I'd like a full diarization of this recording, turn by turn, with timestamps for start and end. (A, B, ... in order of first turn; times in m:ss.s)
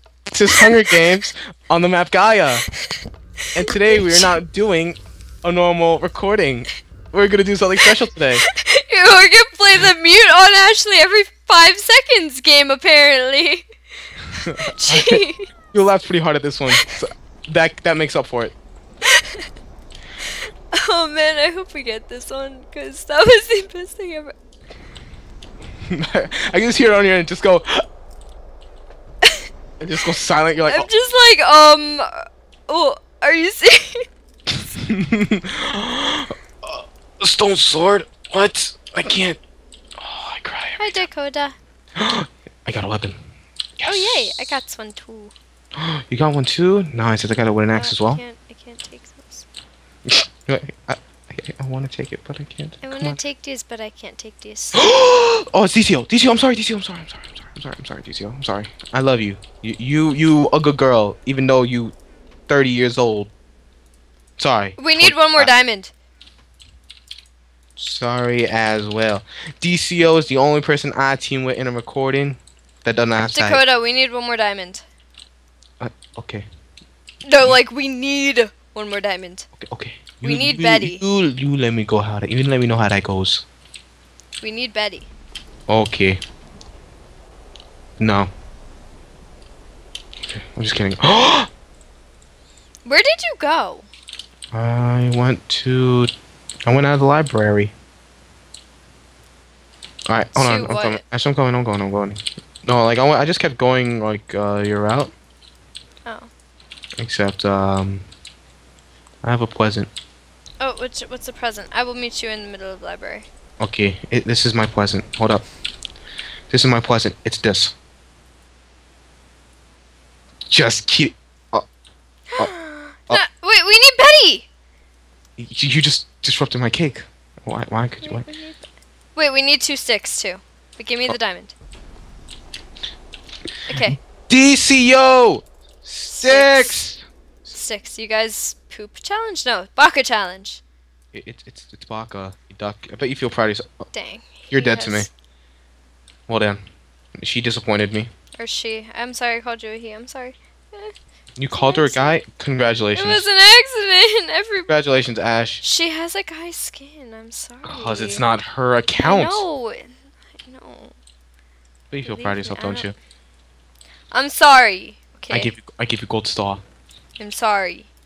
0:00.3-0:02.6 A
0:00.5-0:01.2 B
0:03.5-0:08.4 A
0:03.6-0:04.3 B
0:08.4-0:13.6 B
0:14.3-0:15.5 B
0:14.5-0:18.5 A
0:19.1-0:19.4 B
0:20.7-0:24.3 B
0:25.9-0:27.8 A
0:29.8-0:30.9 A
0:30.6-0:34.0 B
0:34.7-0:39.4 A
0:40.0-0:41.1 A
0:40.8-0:41.6 B
0:42.0-0:43.2 A
0:43.8-0:44.6 A
0:43.8-0:45.3 B
0:45.8-0:48.2 A
0:47.7-0:49.4 B
0:50.1-0:53.2 A
0:52.8-0:54.8 B
0:54.7-1:01.9 A
1:02.5-1:03.3 A
1:04.4-1:05.5 A
1:04.8-1:05.9 B
1:07.8-1:13.6 A
1:13.2-1:14.8 B
1:15.8-1:16.5 A
1:17.2-1:19.5 B
1:19.6-1:23.4 A
1:20.2-1:21.0 B
1:24.4-1:25.1 B
1:25.7-1:26.2 A
1:28.0-1:28.3 A
1:30.2-1:31.5 A
1:32.8-1:33.9 B
1:34.5-1:36.1 A
1:36.6-1:37.7 A
1:40.1-1:45.1 A
1:40.3-1:41.0 B
1:46.0-1:46.3 B
1:47.0-1:48.0 A
1:49.2-1:49.9 A
1:50.6-1:53.3 B
1:53.6-1:55.4 A
1:56.5-1:57.7 A
2:00.5-2:01.6 A
2:02.3-2:04.5 B
2:05.4-2:08.2 A
2:08.0-2:11.5 B
2:13.7-2:14.0 B
2:13.8-2:17.0 A
2:16.1-2:16.9 B
2:17.5-2:20.6 B
2:21.1-2:23.8 A
2:23.9-2:25.1 B
2:24.5-2:25.1 A
2:26.3-2:26.6 A
2:27.2-2:28.1 A
2:28.4-2:30.9 B
2:31.4-2:33.2 A
2:31.5-2:32.2 B
2:32.9-2:34.7 B
2:34.7-2:35.6 A
2:35.6-2:38.2 B
2:37.6-2:39.4 A
2:39.0-2:41.0 B
2:41.9-2:42.9 A
2:42.0-2:42.9 B
2:44.1-2:45.5 B
2:45.3-2:46.6 A
2:47.2-2:47.9 B